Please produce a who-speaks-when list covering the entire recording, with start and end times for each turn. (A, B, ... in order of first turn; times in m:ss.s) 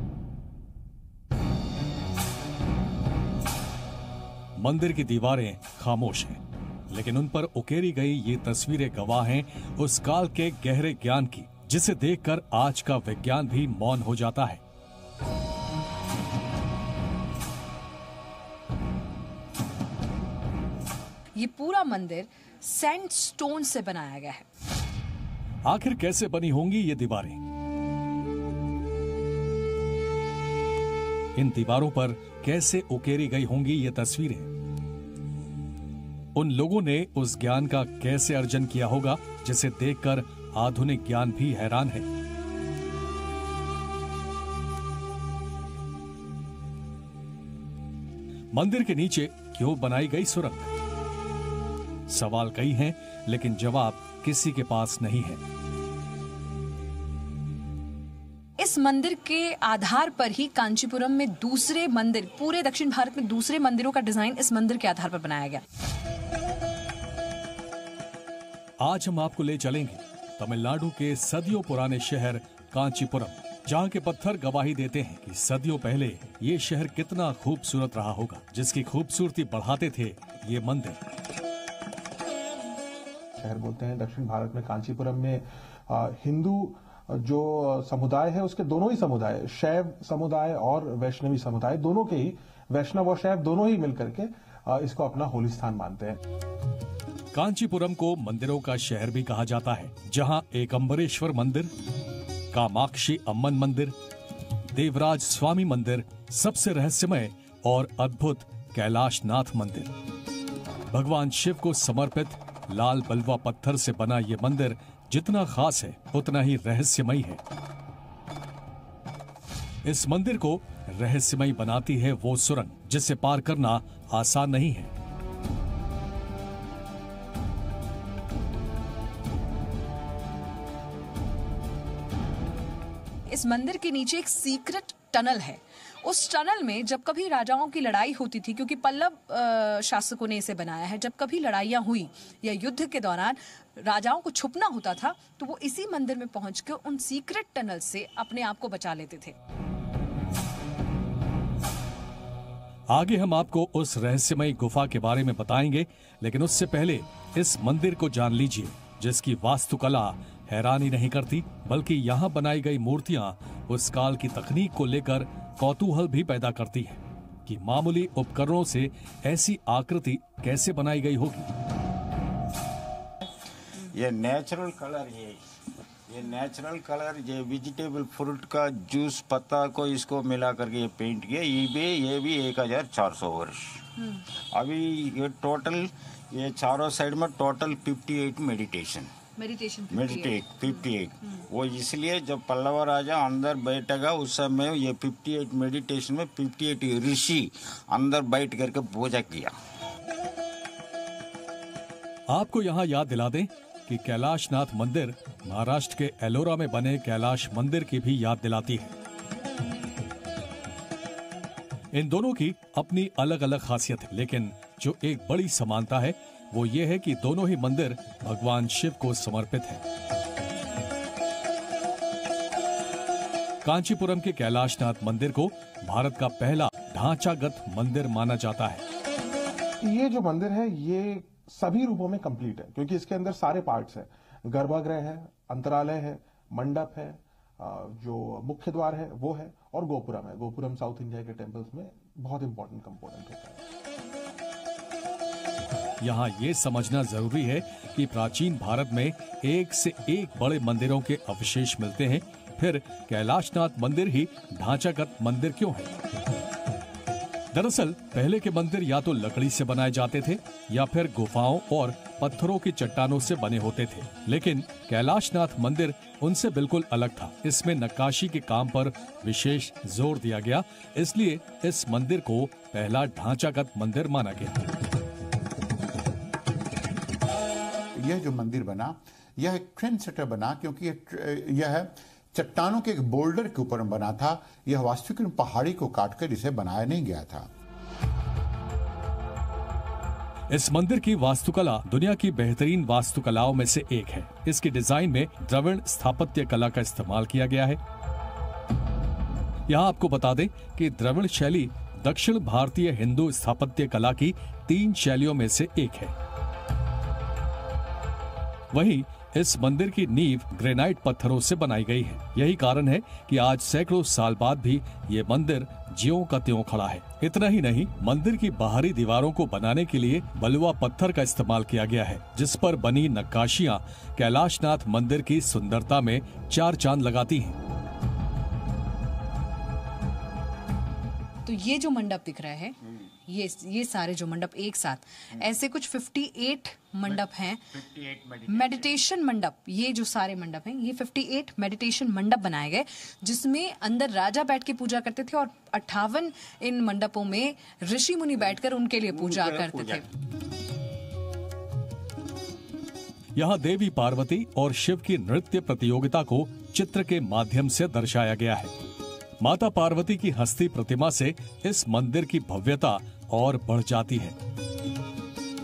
0:04.6-0:14.6 A
0:21.3-0:24.4 B
0:25.6-0:27.4 A
0:31.4-0:34.5 A
0:36.3-0:42.1 A
0:48.5-0:50.7 A
0:52.1-0:55.4 A
0:58.6-1:05.6 B
1:08.8-1:21.0 A
1:23.4-1:36.2 C
1:37.3-1:41.7 A
1:42.5-1:43.9 A
1:44.7-1:49.9 A
1:50.9-1:57.4 A
1:59.8-2:04.9 A
2:13.3-2:29.3 B
2:32.9-2:51.5 A
2:53.9-2:55.4 D
2:56.1-3:03.8 D
3:04.5-3:09.1 D
3:09.4-3:11.4 B
3:09.9-3:19.5 D
3:22.3-3:28.9 A
3:31.9-3:39.8 A
3:43.6-3:48.8 A
3:49.8-4:03.6 C
4:06.0-4:15.9 A
4:17.5-4:34.6 A
4:38.0-4:47.5 E
4:50.5-4:57.8 A
4:59.7-5:06.1 A
5:08.7-5:27.6 A
5:31.4-5:37.7 B
5:37.0-5:39.0 D
5:38.5-5:50.1 B
5:49.1-5:50.0 D
5:53.3-5:58.7 A
5:59.4-6:04.4 A